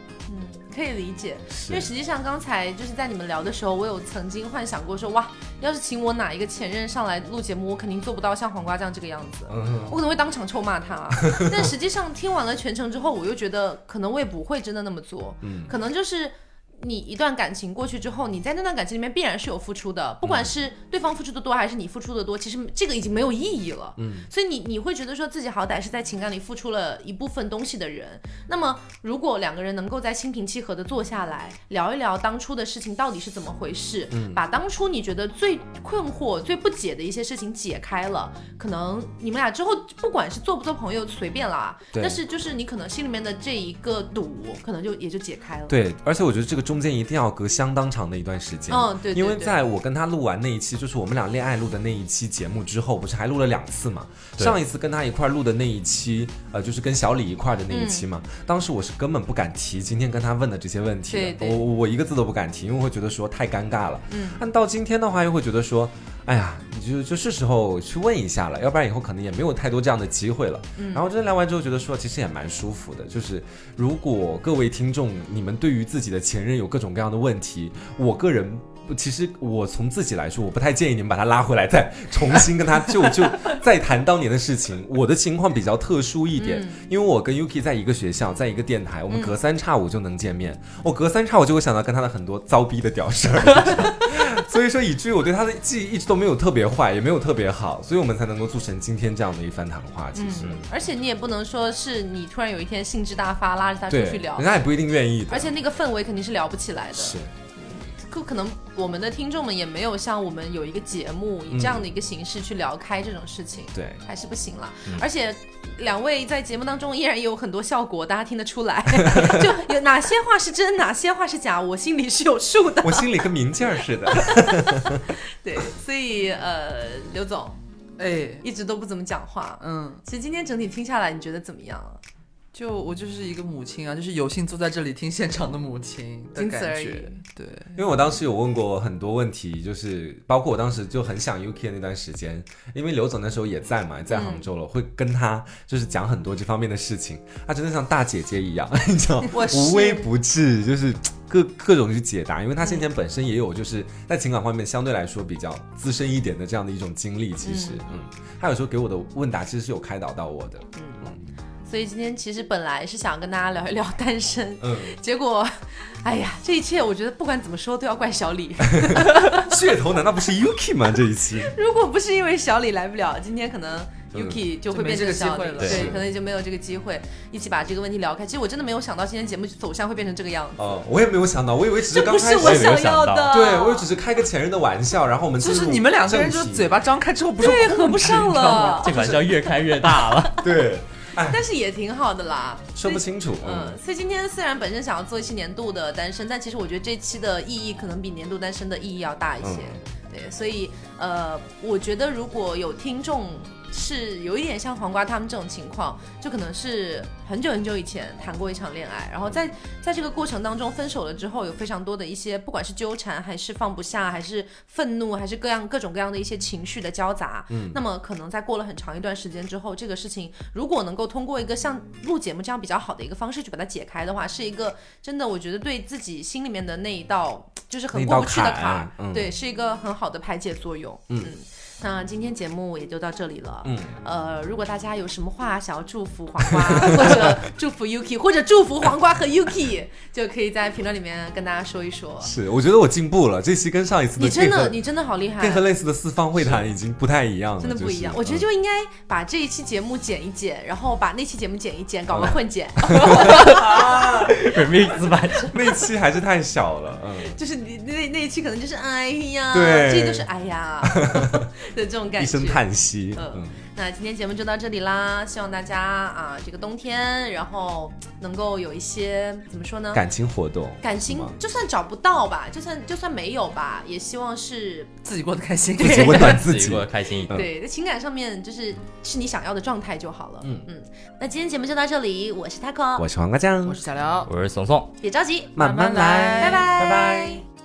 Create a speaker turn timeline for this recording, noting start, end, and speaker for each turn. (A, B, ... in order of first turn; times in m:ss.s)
0:00.3-0:45.8 A
0:01.6-0:01.9 B
0:09.5-0:10.0 B
0:11.4-0:11.7 B
0:15.4-0:15.7 B
0:20.2-0:20.5 B
0:24.0-0:24.3 B
0:34.1-0:34.4 B
0:41.9-0:42.2 B
0:45.7-1:40.7 B
0:48.7-0:49.6 A
0:57.7-0:58.0 A
1:01.1-1:01.6 A
1:04.1-1:04.4 A
1:10.8-1:11.1 A
1:26.4-1:26.8 A
1:29.1-1:29.4 A
1:40.1-1:44.6 A
1:43.9-1:45.5 B
1:45.3-2:03.2 A
1:46.9-1:47.3 B
1:51.5-1:51.8 B
1:53.7-1:54.0 B
1:59.0-1:59.5 B
2:02.8-2:05.1 B
2:04.1-2:07.6 A
2:08.0-2:08.5 C
2:08.4-2:12.0 A
2:09.6-2:10.0 C
2:12.5-2:17.8 C
2:16.4-2:17.2 A
2:17.8-2:41.2 B
2:24.1-2:24.5 A
2:29.3-2:30.1 A
2:37.4-2:37.8 A
2:40.8-2:41.1 A
2:41.7-2:49.5 A
2:44.6-2:45.0 B
2:48.7-2:51.5 B
2:51.4-3:00.7 A
2:54.1-2:54.4 B
2:54.7-2:56.0 C
2:55.6-2:55.9 D
2:55.6-2:56.0 B
3:00.6-3:06.7 B
3:01.9-3:03.9 A
3:02.4-3:03.4 D
3:05.4-3:08.8 C
3:07.4-3:09.0 A
3:08.4-3:10.5 D
3:08.9-3:09.2 B
3:10.3-3:11.4 B
3:11.2-4:02.3 A
3:12.8-3:13.8 B
3:19.4-3:19.8 B
3:37.5-3:37.8 B
3:47.9-3:49.3 B
3:53.6-3:53.9 B
3:56.6-3:57.4 B
4:02.2-4:04.8 B
4:04.2-4:05.6 A
4:05.4-4:08.5 B
4:07.6-4:14.6 A
4:12.1-4:14.4 B
4:14.4-4:15.6 D
4:15.5-4:17.4 B
4:17.2-4:22.6 A
4:19.5-4:20.3 B
4:20.8-4:21.5 B
4:22.2-4:23.6 B
4:23.1-4:30.0 A
4:29.9-4:31.4 B
4:30.8-4:34.9 A
4:35.0-4:36.5 C
4:35.8-4:37.5 B
4:36.2-4:37.5 D
4:37.3-4:43.1 A
4:40.4-4:40.7 B
4:43.0-4:43.8 B
4:43.6-4:44.3 C
4:44.3-4:44.9 D
4:45.0-4:45.6 A
4:45.6-4:47.4 B
4:45.6-4:46.7 C
4:46.3-4:47.4 A